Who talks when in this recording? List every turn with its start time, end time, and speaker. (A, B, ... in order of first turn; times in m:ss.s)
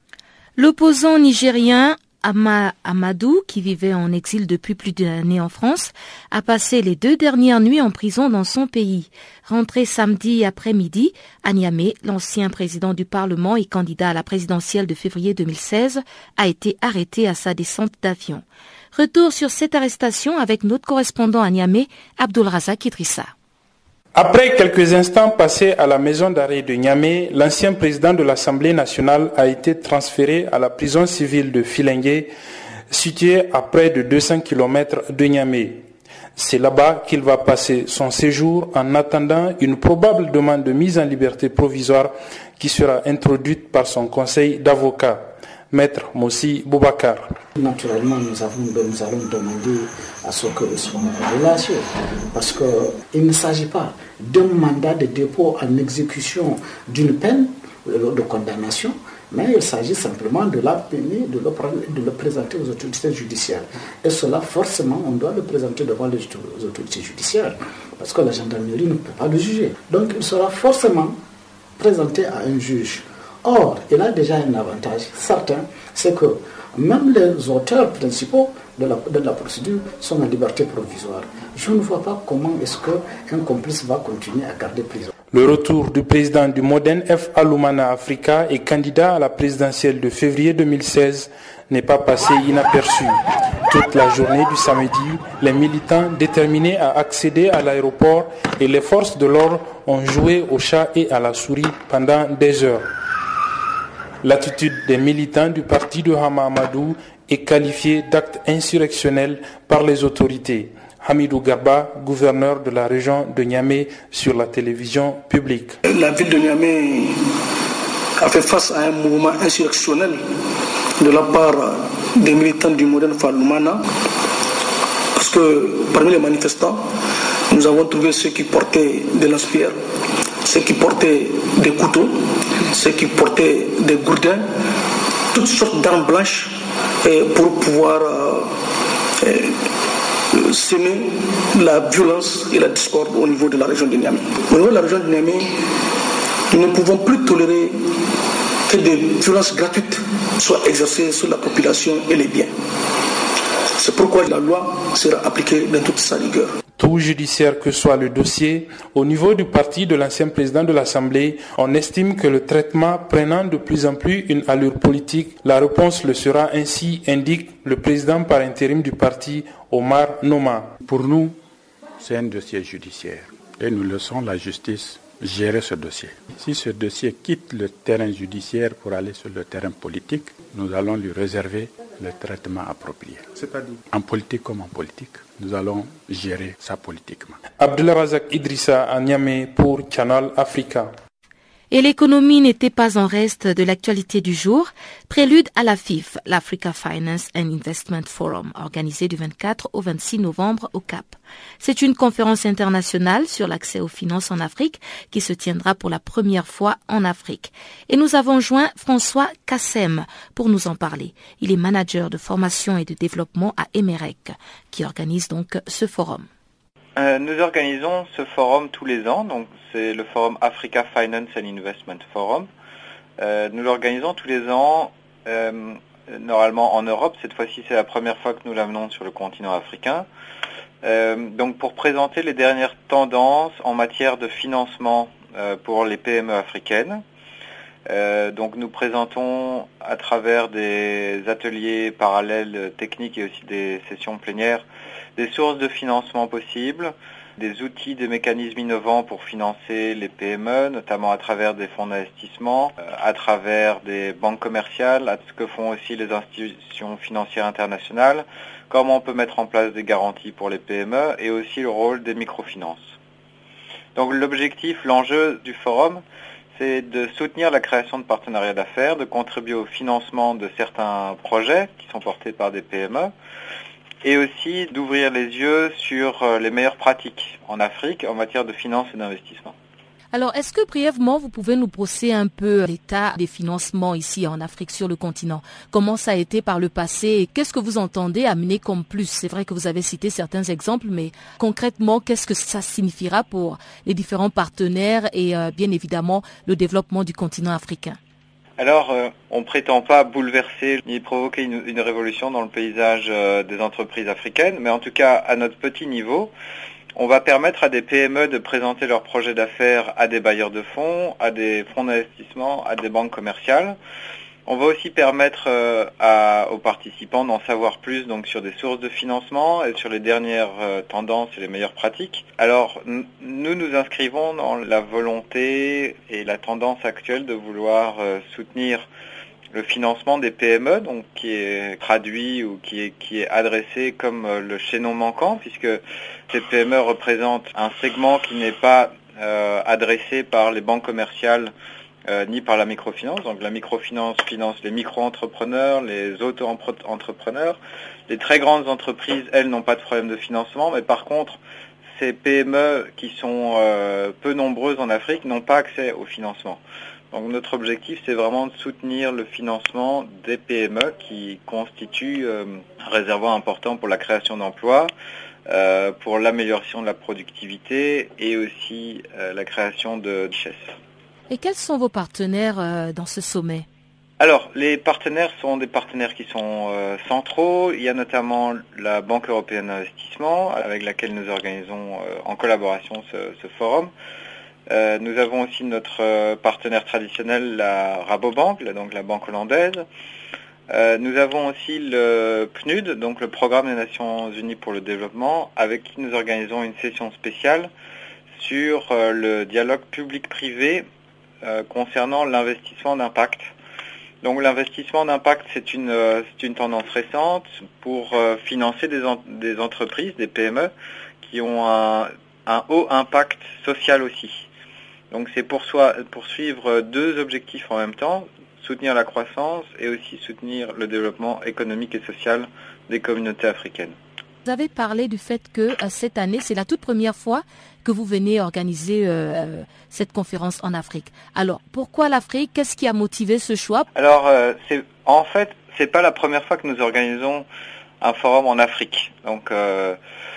0:00.6-0:23.3 A
0:24.1-0:32.3 B
0:32.9-0:35.8 B
0:36.4-0:47.3 B
0:47.6-1:11.2 C
1:11.8-1:25.1 C
1:25.3-1:42.9 B
1:44.2-1:55.8 B
1:55.8-1:57.2 D
1:58.2-2:00.3 D
2:01.0-2:03.8 D
2:05.1-2:06.9 D
2:07.5-2:09.8 D
2:10.4-2:14.5 D
2:15.3-2:18.6 D
2:19.2-2:19.6 D
2:20.3-2:25.6 D
2:26.5-2:27.9 D
2:28.6-2:32.5 D
2:33.7-2:36.6 D
2:36.8-2:50.8 B
2:50.8-2:51.4 E
2:52.0-3:07.5 E
3:07.5-3:10.9 B
3:11.7-3:36.3 A
3:37.0-3:42.5 F
3:43.2-3:50.0 F
3:50.8-3:57.0 F
3:57.9-4:04.6 F
4:05.2-4:22.9 F
4:23.9-4:26.0 F
4:26.6-4:33.1 F
4:34.0-4:39.5 F
4:40.1-4:58.0 A
4:58.6-5:06.3 F
5:07.0-5:13.8 F
5:14.4-5:28.9 F
5:29.5-5:41.5 F
5:42.1-5:51.4 F
5:52.0-6:04.9 F
6:05.5-6:10.7 F
6:11.3-6:13.7 A
6:14.2-6:23.9 F
6:24.7-6:29.8 F
6:30.7-6:37.7 F
6:38.4-6:40.8 F
6:41.4-6:43.5 F
6:44.2-6:54.5 F
6:55.1-7:03.9 F
7:04.4-7:13.8 A
7:13.9-7:17.4 F
7:18.0-7:20.0 F